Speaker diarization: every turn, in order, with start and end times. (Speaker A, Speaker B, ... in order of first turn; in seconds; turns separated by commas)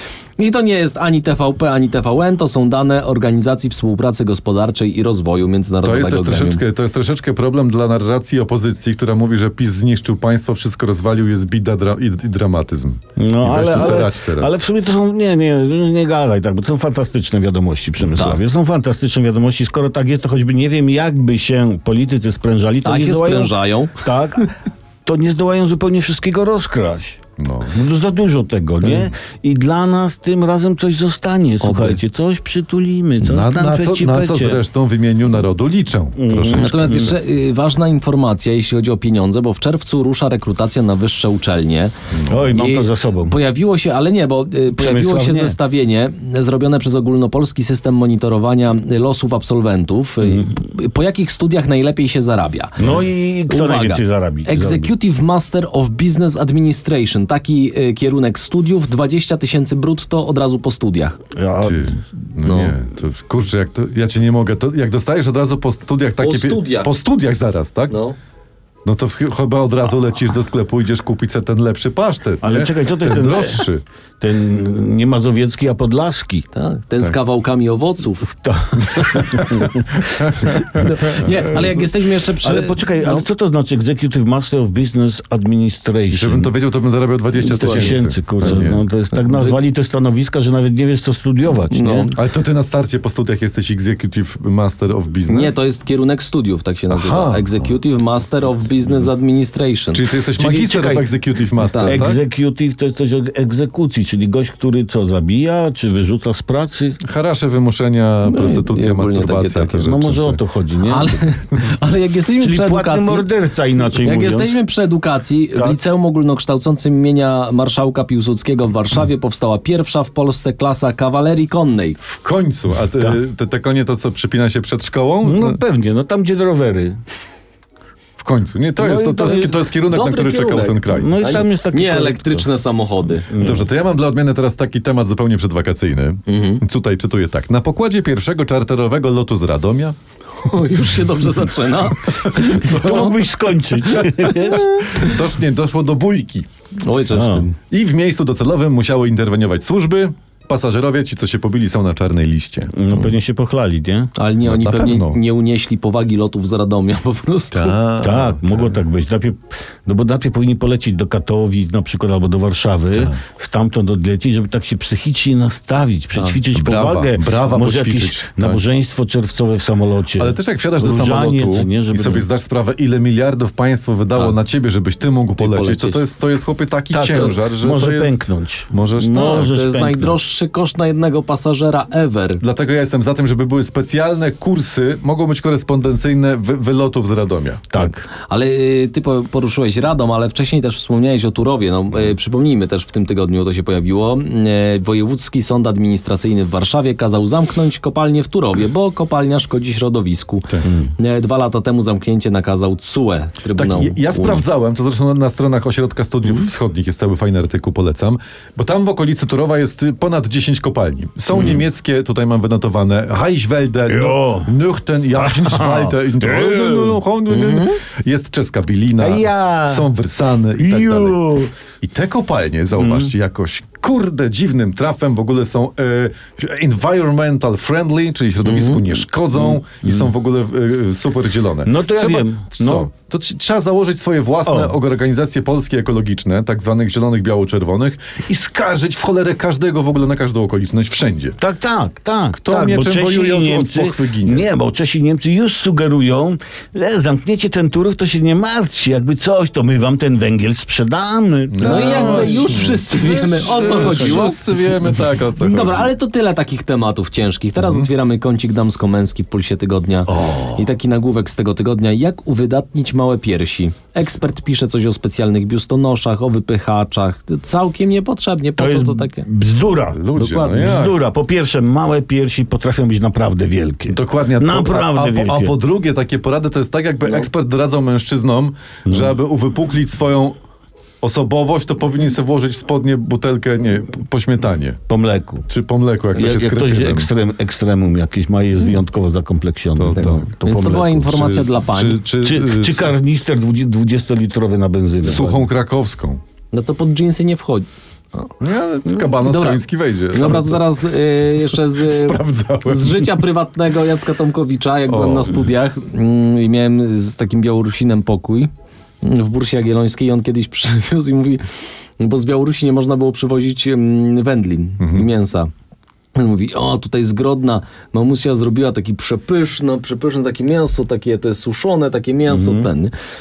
Speaker A: 0.4-6.6, Speaker B: 5.8-14.5, Speaker C: 13.2-24.5, Speaker A: 18.1-18.4, Speaker A: 22.8-24.0, Speaker C: 25.0-34.6, Speaker B: 27.4-27.8, Speaker A: 31.6-32.0, Speaker B: 33.2-37.1, Speaker C: 36.1-37.1, Speaker A: 36.5-41.9, Speaker B: 42.1-42.5, Speaker C: 42.3-43.4, Speaker A: 42.5-52.8, Speaker C: 44.7-45.6, Speaker C: 50.2-50.5, Speaker C: 52.8-54.9, Speaker A: 53.5-61.2, Speaker C: 61.3-62.0, Speaker B: 61.6-68.0, Speaker A: 62.4-62.7, Speaker A: 66.2-66.9, Speaker A: 67.9-68.2, Speaker B: 68.8-73.8, Speaker C: 72.4-73.7, Speaker C: 74.2-76.5, Speaker A: 76.5-78.3, Speaker C: 78.3-80.0, Speaker B: 78.9-80.8, Speaker A: 80.6-83.2, Speaker C: 82.4-86.5, Speaker B: 86.1-88.8, Speaker C: 87.4-92.1, Speaker A: 87.4-88.0, Speaker A: 89.2-89.6, Speaker A: 91.7-92.2, Speaker B: 92.1-95.5, Speaker A: 95.3-100.0, Speaker B: 96.9-97.6, Speaker B: 99.9-102.2, Speaker C: 100.3-101.1, Speaker A: 101.6-102.1, Speaker C: 101.8-107.0, Speaker B: 107.0-110.4, Speaker A: 108.2-109.9, Speaker C: 109.8-111.2, Speaker A: 110.8-113.3, Speaker C: 112.4-114.6, Speaker A: 113.9-122.0, Speaker B: 122.0-125.6, Speaker C: 125.2-127.0, Speaker B: 128.2-131.4, Speaker C: 128.8-129.5, Speaker A: 129.2-133.4, Speaker C: 130.9-132.5, Speaker C: 133.3-133.7, Speaker B: 133.4-139.9, Speaker A: 136.3-136.6, Speaker A: 140.4-143.2, Speaker B: 142.3-142.9, Speaker C: 142.5-144.8, Speaker A: 144.5-145.1, Speaker B: 144.9-146.5, Speaker A: 146.8-147.5, Speaker C: 147.1-147.5, Speaker B: 147.7-152.7, Speaker C: 152.7-154.1, Speaker A: 154.2-157.8, Speaker B: 154.4-155.2, Speaker B: 157.5-158.7, Speaker C: 158.0-172.3, Speaker B: 162.9-163.2, Speaker B: 166.5-168.6, Speaker B: 170.2-179.5, Speaker A: 175.4-176.0, Speaker C: 176.9-180.2, Speaker A: 179.3-182.4, Speaker B: 182.4-187.7, Speaker C: 187.7-188.1, Speaker A: 187.8-204.4, Speaker B: 203.6-221.2, Speaker C: 213.9-214.5, Speaker C: 215.1-217.0, Speaker A: 217.3-217.8, Speaker C: 219.0-219.9, Speaker C: 220.6-221.5, Speaker B: 221.8-241.4, Speaker C: 222.8-223.1, Speaker A: 228.4-228.9, Speaker C: 229.3-230.1, Speaker C: 231.6-232.9, Speaker C: 234.4-234.8, Speaker C: 241.4-252.7, Speaker B: 242.3-244.5, Speaker B: 251.5-255.9, Speaker A: 251.6-254.4, Speaker C: 253.6-254.3, Speaker A: 255.4-269.2, Speaker B: 257.6-257.9, Speaker C: 260.1-260.6, Speaker C: 268.6-275.6, Speaker B: 269.9-270.9, Speaker A: 270.1-270.8, Speaker B: 273.9-280.4, Speaker C: 278.9-279.1, Speaker B: 281.0-284.8, Speaker C: 284.9-285.4, Speaker B: 285.5-287.1, Speaker C: 286.1-291.3, Speaker B: 289.8-292.9, Speaker A: 289.9-292.0, Speaker C: 292.2-295.5, Speaker B: 295.0-296.2, Speaker A: 296.5-298.3, Speaker B: 298.4-300.6, Speaker A: 299.0-308.5, Speaker B: 301.8-303.1, Speaker B: 304.9-305.4, Speaker A: 309.0-311.4, Speaker A: 312.0-315.5, Speaker B: 314.8-315.1, Speaker A: 316.1-322.9, Speaker C: 322.3-322.7